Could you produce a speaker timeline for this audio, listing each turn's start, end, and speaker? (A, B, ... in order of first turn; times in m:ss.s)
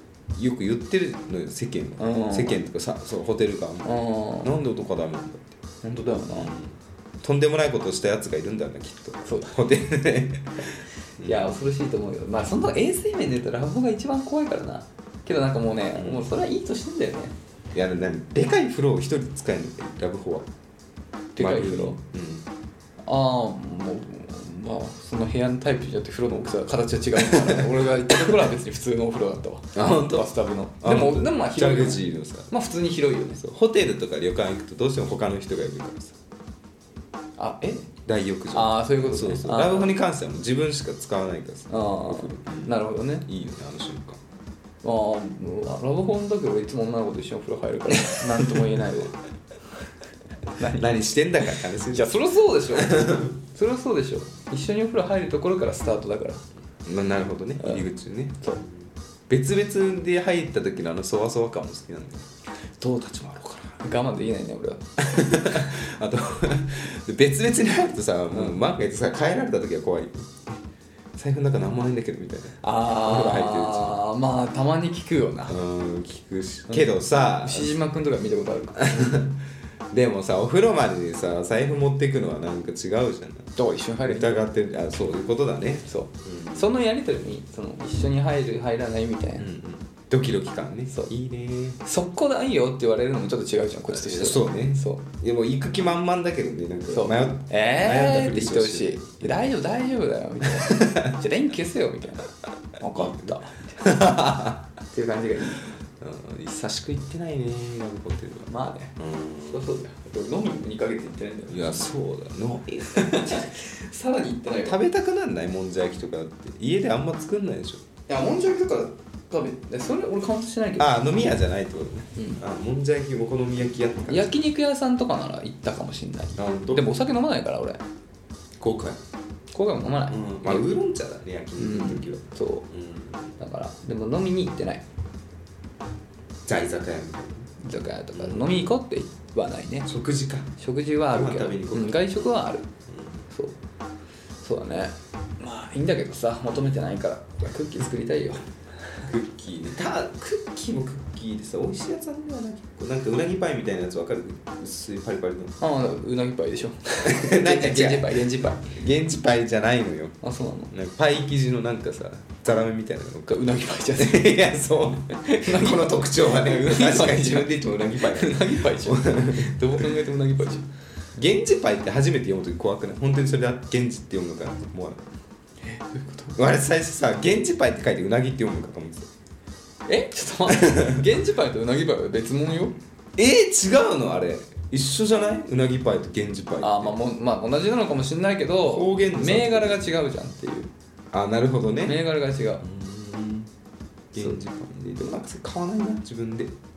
0:00.4-0:05.6 A
0:02.0-0:02.6 B
0:03.8-0:04.5 B
0:05.8-0:06.5 B
0:06.3-0:11.5 A
0:09.2-0:09.6 B
0:11.2-0:17.4 B
0:16.0-0:16.3 A
0:17.7-0:20.5 A
0:21.4-0:22.0 B
0:21.4-0:22.5 A
0:23.0-0:33.4 B
0:27.2-0:28.2 A
0:29.8-0:30.3 A
0:30.8-0:32.5 A
0:33.4-0:36.2 A
0:37.4-0:37.9 B
0:38.1-0:44.2 A
0:38.5-0:39.9 B
0:41.7-0:43.3 B
0:44.8-0:49.2 B
0:47.9-0:48.7 A
0:50.6-0:56.4 B
0:50.6-0:52.2 A
0:52.7-0:53.4 A
0:56.9-1:03.8 A
1:03.8-1:04.9 B
1:05.0-1:10.6 A
1:08.3-1:08.6 B
1:11.2-1:14.0 A
1:12.6-1:15.6 B
1:15.5-1:17.8 A
1:16.7-1:19.2 B
1:18.8-1:19.4 A
1:19.9-1:23.5 A
1:23.6-1:24.5 B
1:24.0-1:26.7 A
1:25.9-1:29.5 B
1:29.4-1:31.8 A
1:31.8-1:35.0 B
1:33.9-1:39.4 A
1:36.9-1:43.8 B
1:40.4-1:41.2 A
1:42.9-1:44.7 A
1:44.9-1:45.7 B
1:46.0-1:49.7 A
1:48.5-1:51.9 B
1:51.5-1:53.5 A
1:52.9-1:54.8 B
1:54.6-1:57.8 A
1:58.1-2:01.0 B
2:00.8-2:04.4 A
2:04.1-2:07.8 B
2:06.4-2:06.8 A
2:08.6-2:09.0 A
2:09.5-2:10.7 B
2:10.1-2:13.3 A
2:11.6-2:12.7 B
2:13.4-2:14.8 B
2:16.5-2:17.5 A
2:17.6-2:19.9 B
2:18.1-2:18.7 A
2:19.9-2:20.5 A
2:20.6-2:22.7 B
2:21.1-2:22.3 A
2:22.9-2:23.2 A
2:23.3-2:23.6 B
2:24.4-2:28.4 B
2:29.0-2:35.6 A
2:35.6-2:38.8 B
2:37.0-2:49.9 A
2:40.2-2:40.7 B
2:43.3-2:44.4 B
2:45.1-2:50.7 B
2:51.2-2:55.0 A
2:55.6-2:56.4 B
2:56.4-2:59.1 A
2:59.9-3:02.8 B
3:00.5-3:01.0 A
3:03.2-3:07.0 A
3:06.6-3:10.7 B
3:08.7-3:10.0 A
3:11.1-3:12.0 A
3:11.8-3:12.6 B
3:12.6-3:13.5 A
3:14.1-3:16.5 A